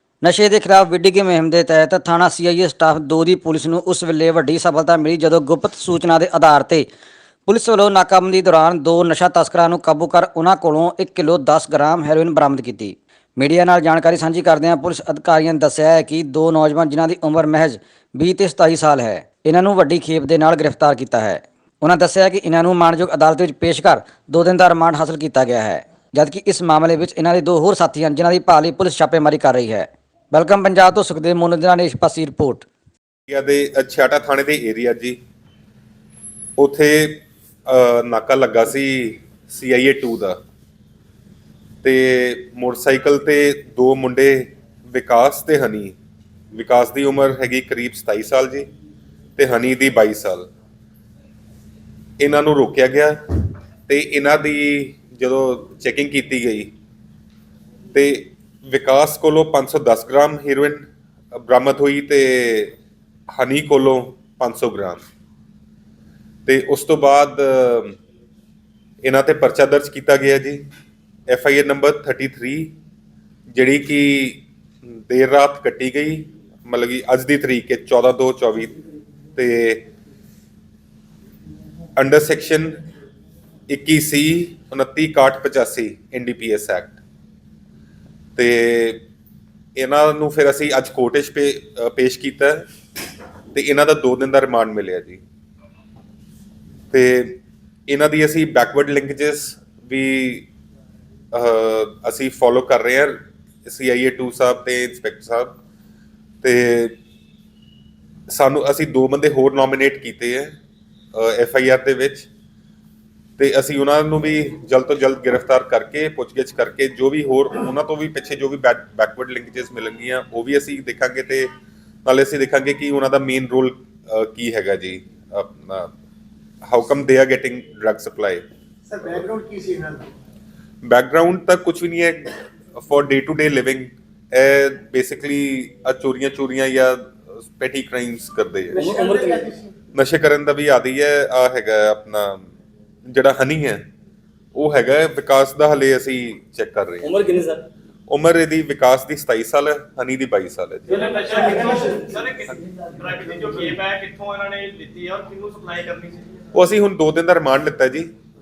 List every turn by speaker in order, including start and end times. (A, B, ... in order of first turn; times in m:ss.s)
0:00.2-0:06.8 A
0:07.5-0:32.6 A
0:33.3-0:35.2 B
0:36.6-0:40.4 B
0:41.8-0:45.9 B
0:46.5-0:48.7 B
0:49.4-0:50.5 B
0:52.2-0:53.2 B
0:53.9-0:56.7 B
0:57.9-1:02.8 B
1:03.4-1:05.0 B
1:06.4-1:08.0 B
1:09.0-1:10.6 B
1:11.3-1:12.7 B
1:13.5-1:14.4 B
1:15.1-1:18.7 B
1:19.4-1:19.9 B
1:22.0-1:22.8 B
1:23.7-1:27.0 B
1:28.4-1:29.0 B
1:29.8-1:32.6 B
1:33.5-1:35.2 B
1:36.9-1:40.5 B
1:41.3-1:45.6 B
1:46.4-1:46.9 B
1:48.3-1:50.5 B
1:51.1-1:52.3 B
1:53.4-2:01.5 B
2:02.0-2:05.9 B
2:06.6-2:08.4 B
2:08.9-2:10.1 C
2:10.8-2:18.8 B
2:18.8-2:19.5 D
2:18.8-2:19.7 C
2:19.9-2:22.5 B
2:23.1-2:23.8 B
2:24.5-2:27.2 B
2:27.0-2:27.7 D
2:28.1-2:31.1 B
2:30.9-2:36.3 E
2:31.0-2:32.0 D
2:31.3-2:31.7 C
2:36.5-2:38.1 B